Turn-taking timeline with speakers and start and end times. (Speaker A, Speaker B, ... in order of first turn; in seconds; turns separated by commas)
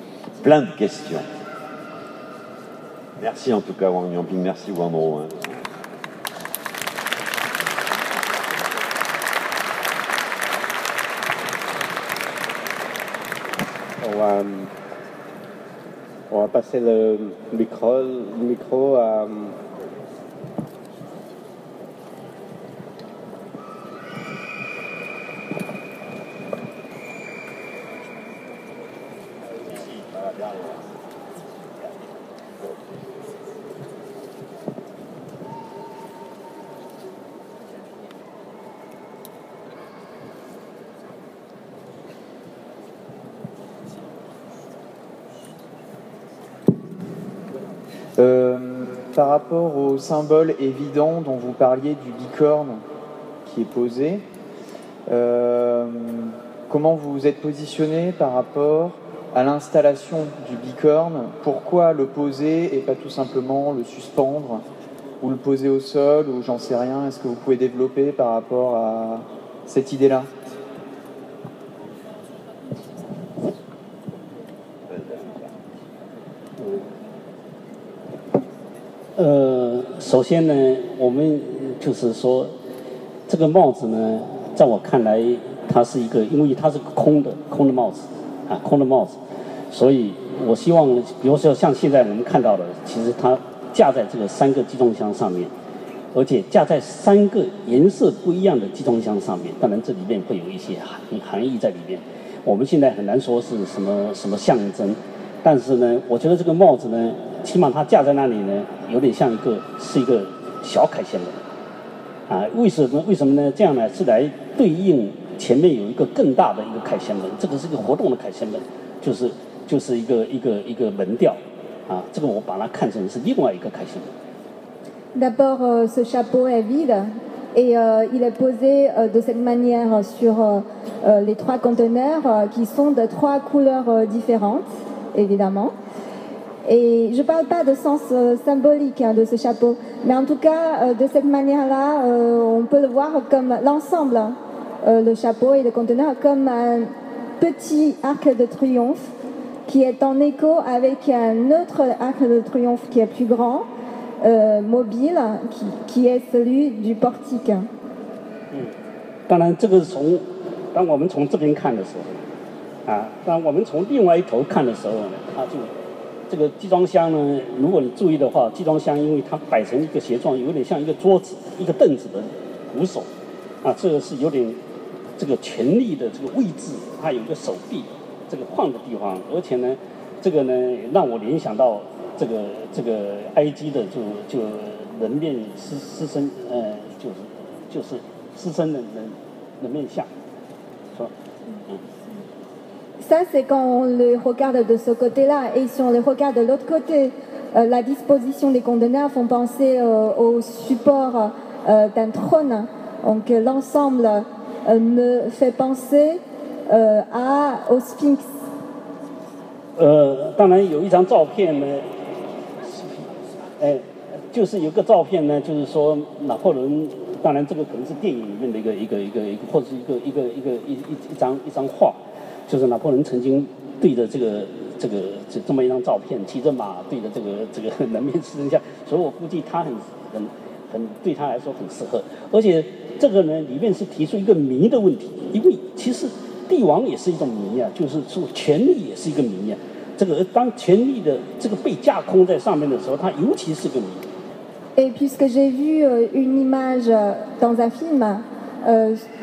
Speaker A: 0.4-1.2, Speaker A: 3.2-5.6, Speaker B: 14.0-14.7, Speaker B: 16.3-19.6, Speaker A: 29.5-30.8, Speaker C: 48.1-52.8, Speaker C: 53.4-54.2, Speaker C: 55.1-64.6, Speaker C: 65.2-70.3, Speaker A: 74.9-75.4, Speaker D: 79.2-82.5, Speaker D: 83.3-89.2, Speaker D: 89.7-95.5, Speaker D: 96.1-111.4, Speaker D: 112.3-124.1, Speaker E: 125.1-135.7, Speaker E: 136.6-149.1, Speaker E: 149.7-153.7, Speaker E: 154.2-157.7, Speaker D: 159.3-162.2, Speaker D: 162.8-165.7, Speaker D: 166.3-173.1, Speaker D: 173.6-174.6, Speaker D: 175.2-190.1, Speaker E: 193.0-208.2, Speaker D: 209.8-211.9, Speaker D: 212.6-213.1, Speaker D: 213.6-244.1, Speaker E: 244.8-249.0